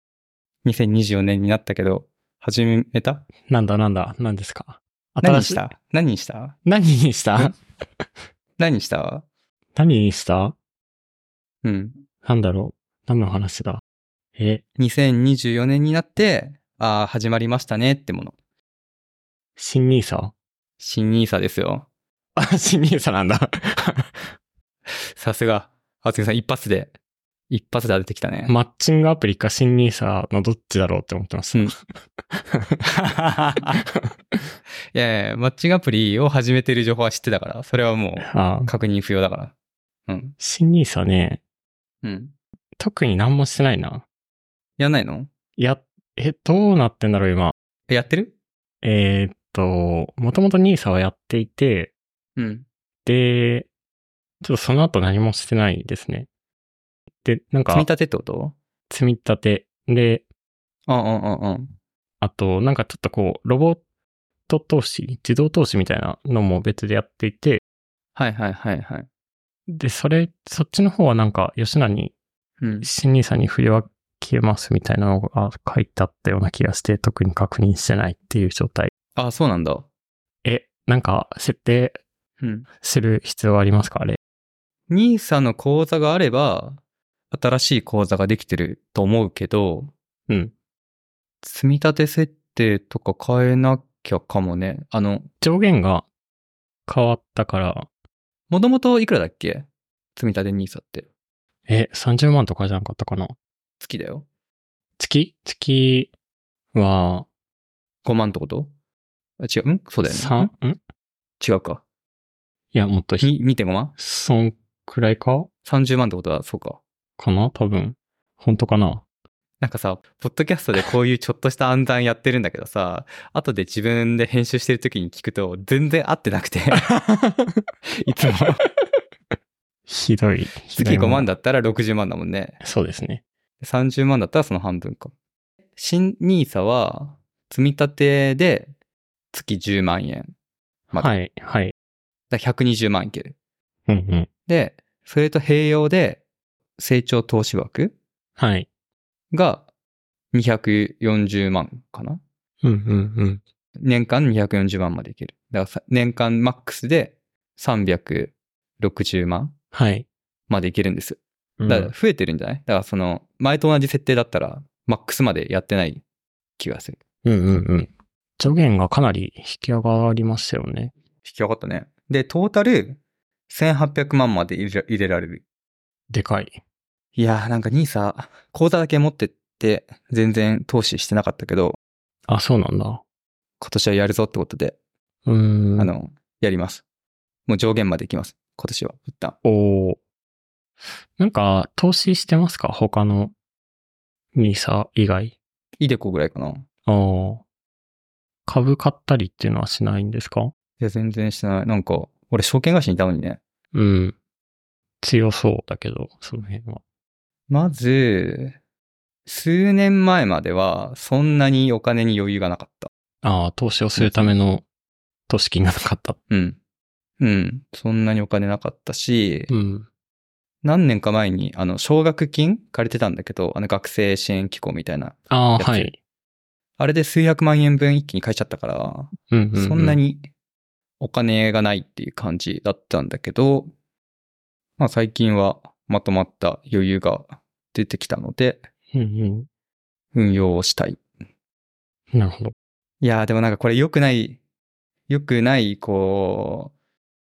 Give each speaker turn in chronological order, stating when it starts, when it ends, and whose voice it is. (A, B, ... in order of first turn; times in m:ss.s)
0:00.6-0:03.3 A
0:03.5-0:05.6 B
0:05.2-0:06.5 A
0:06.6-0:08.0 B
0:08.6-0:09.2 A
0:09.8-0:10.6 B
0:11.6-0:12.0 A
0:12.2-0:13.8 B
0:14.4-0:14.6 B
0:14.8-0:18.3 A
0:19.6-0:20.3 B
0:20.8-0:21.9 A
0:22.4-0:24.3 B
0:25.2-0:26.9 A
0:27.5-0:28.5 A
0:28.4-0:32.8 B
0:32.9-0:33.8 A
0:33.7-0:34.4 B
0:34.9-0:39.5 A
0:38.2-0:38.7 B
0:40.1-0:40.3 A
0:40.4-0:41.4 B
0:42.0-0:42.3 A
0:42.8-0:44.0 B
0:44.8-0:45.3 A
0:45.6-0:47.5 B
0:47.9-0:48.3 A
0:48.8-0:51.9 B
0:52.4-0:52.6 A
0:53.0-0:53.7 B
0:54.4-0:56.3 B
0:57.2-0:57.9 B
0:57.7-0:58.6 A
0:58.9-1:00.2 B
1:00.9-1:01.7 A
1:02.2-1:03.8 B
1:04.5-1:07.6 B
1:08.2-1:09.1 A
1:09.7-1:12.1 B
1:12.6-1:12.9 A
1:12.8-1:18.9 B
1:19.2-1:19.9 A
1:20.4-1:22.0 B
1:22.4-1:22.6 A
1:22.8-1:24.2 B
1:24.9-1:26.8 A
1:27.3-1:29.9 A
1:31.4-1:35.3 A
1:35.4-1:36.0 B
1:36.9-1:37.9 B
1:38.5-1:41.0 A
1:41.7-1:43.3 B
1:43.8-1:44.2 A
1:45.0-1:46.1 B
1:46.7-1:47.3 B
1:48.0-1:48.7 A
1:49.4-1:50.5 A
1:50.0-1:50.8 B
1:51.4-1:51.8 A
1:52.7-1:53.3 B
1:53.2-1:53.9 A
1:54.0-1:55.5 B
1:55.6-1:56.8 A
1:57.2-1:59.0 B
1:59.6-2:06.9 A
2:06.9-2:07.6 B
2:07.9-2:08.6 A
2:09.9-2:11.3 B
2:10.7-2:12.6 A
2:12.6-2:13.2 B
2:13.6-2:15.1 A
2:15.8-2:18.7 A
2:19.3-2:20.3 A
2:20.9-2:21.7 B
2:22.3-2:23.4 A
2:23.9-2:24.3 B
2:24.5-2:26.2 A
2:26.8-2:27.9 A
2:28.4-2:28.7 B
2:29.3-2:29.7 A
2:30.3-2:32.2 A
2:32.6-2:33.4 B
2:33.8-2:39.5 A
2:39.7-2:40.0 B
2:40.5-2:46.0 A
2:41.6-2:41.9 B
2:46.6-2:47.0 A
2:47.2-2:50.9 B
2:51.2-2:55.4 A
2:56.1-2:56.6 B
2:57.1-3:01.8 A
3:02.3-3:03.0 B
3:03.6-3:04.7 A
3:05.2-3:05.9 B
3:05.8-3:06.8 A
3:07.5-3:09.4 A
3:09.4-3:10.0 B
3:11.2-3:13.3 B
3:14.3-3:15.4 B
3:15.8-3:16.6 A
3:16.9-3:17.4 B
3:18.5-3:20.5 B
3:20.8-3:23.4 A
3:23.7-3:24.2 B
3:25.0-3:26.8 B
3:27.5-3:28.6 A
3:29.2-3:32.9 A
3:33.2-3:34.6 B
3:34.0-3:34.3 A
3:35.3-3:36.2 B
3:36.3-3:36.6 A
3:37.2-3:39.5 A
3:39.5-3:39.9 B
3:40.6-3:45.9 A
3:45.3-3:46.0 B
3:46.8-3:50.3 A
3:49.3-3:50.0 B
3:51.0-3:53.7 A
3:54.8-3:58.6 A
3:58.9-3:59.5 B
4:00.1-4:01.0 A
4:02.1-4:02.5 B
4:03.0-4:04.4 A
4:05.1-4:06.7 A